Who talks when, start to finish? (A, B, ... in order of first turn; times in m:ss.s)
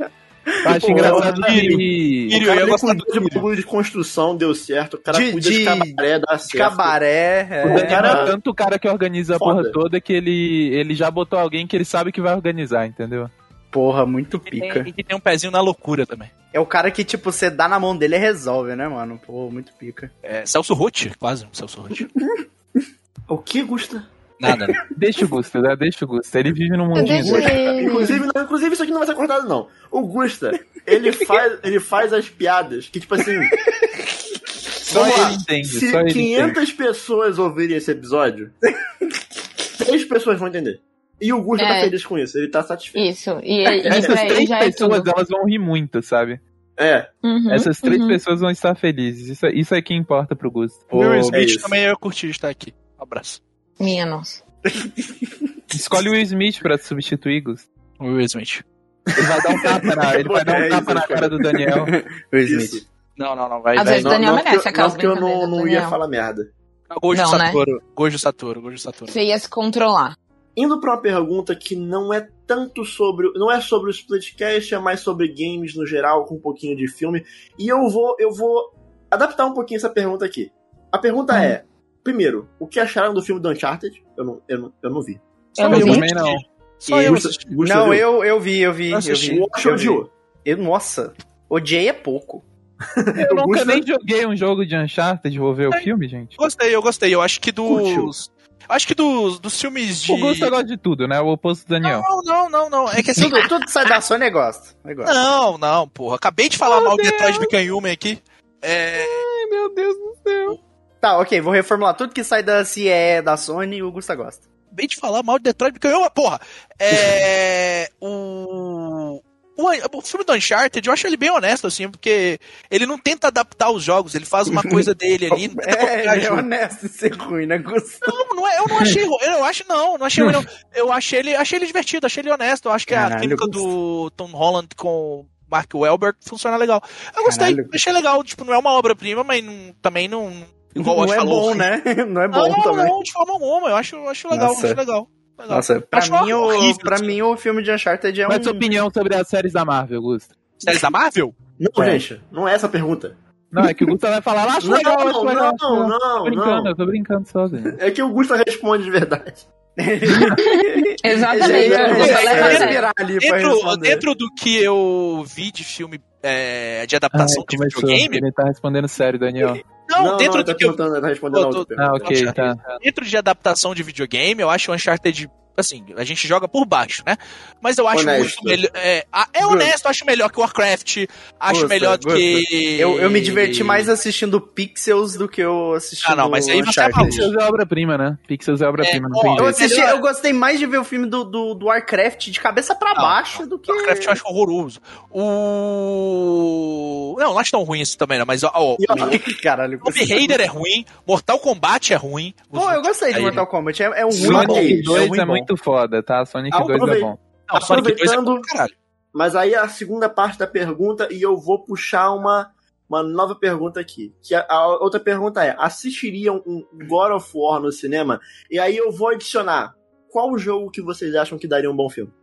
0:00.6-0:01.5 A
0:00.6-0:02.4 B
0:00.8-0:01.8 C
0:00.9-0:03.5 D
0:02.4-0:07.0 C
0:05.1-0:08.3 A
0:07.6-0:13.3 B
0:07.6-0:08.4 C
0:09.4-0:09.8 C
0:13.7-0:14.9 A
0:14.5-0:16.3 D
0:16.5-0:20.1 A
0:20.2-0:22.1 D
0:23.3-0:24.1 C
0:24.4-0:24.8 D
0:24.5-0:24.8 A
0:25.0-0:27.6 B
0:26.9-0:28.2 E
0:27.1-0:33.6 C
0:34.9-0:36.6 B
0:34.9-0:38.5 C
0:34.9-0:35.4 A
0:39.8-0:43.0 C
0:41.6-0:41.9 E
0:43.0-0:45.1 E
0:43.8-0:46.4 B
0:44.0-0:44.4 C
0:46.8-0:47.1 C
0:47.2-0:48.2 E
0:47.5-0:50.9 B
0:50.9-0:51.4 A
0:50.9-0:53.4 D
0:51.3-0:51.7 C
0:53.8-0:54.4 E
0:54.7-0:55.3 A
0:55.7-0:57.7 B
0:58.0-0:58.6 D
0:59.1-1:01.6 C
0:59.2-1:01.9 B
1:01.7-1:02.8 A
1:02.4-1:02.8 C
1:03.2-1:04.2 D
1:03.8-1:06.0 E
1:04.0-1:06.5 C
1:06.9-1:09.2 D
1:07.1-1:07.6 E
1:09.1-1:10.2 E
1:10.6-1:25.2 C
1:25.6-1:26.1 E
1:25.6-1:27.5 D
1:25.6-1:26.4 B
1:26.9-1:32.4 A
1:27.0-1:28.1 C
1:28.9-1:29.4 D
1:29.2-1:30.1 C
1:33.0-1:33.9 C
1:33.2-1:36.4 B
1:35.7-1:40.5 D
1:37.7-1:38.1 C
1:40.1-1:42.1 B
1:41.8-1:44.0 D
1:43.1-1:45.2 A
1:45.0-1:49.2 D
1:49.2-1:50.5 B
1:51.0-1:54.4 A
1:54.7-2:06.5 D
2:04.5-2:04.8 A
2:05.3-2:08.2 A
2:08.0-2:21.7 D
2:12.9-2:13.7 A
2:17.2-2:17.8 A
2:20.8-2:22.9 A
2:22.3-2:27.2 D
2:24.3-2:24.8 A
2:25.5-2:28.6 A
2:28.3-2:30.4 B
2:30.6-2:31.3 D
2:31.6-2:33.1 C
2:31.8-2:32.0 A
2:33.5-2:37.8 B
2:33.6-2:33.9 A
2:34.6-2:36.7 C
2:37.8-2:39.4 C
2:39.8-2:44.1 A
2:40.1-2:42.9 E
2:41.4-2:42.7 C
2:41.9-2:48.2 D
2:47.1-2:49.6 B
2:49.8-2:50.8 D
2:50.0-2:52.2 C
2:51.3-3:03.9 D
2:51.8-2:52.7 B
2:57.9-2:58.6 C
2:59.4-2:59.7 A
3:01.5-3:07.3 A
3:06.0-3:07.3 D
3:06.9-3:09.8 B
3:08.8-3:10.0 D
3:09.4-3:14.2 A
3:13.0-3:19.2 D
3:18.8-3:19.2 C
3:19.0-3:20.4 A
3:19.8-3:23.5 D
3:22.5-3:24.9 A
3:24.1-3:25.1 C
3:24.1-3:27.2 B
3:25.0-3:25.3 D
3:26.5-3:28.5 C
3:27.5-3:28.8 D
3:29.1-3:42.1 C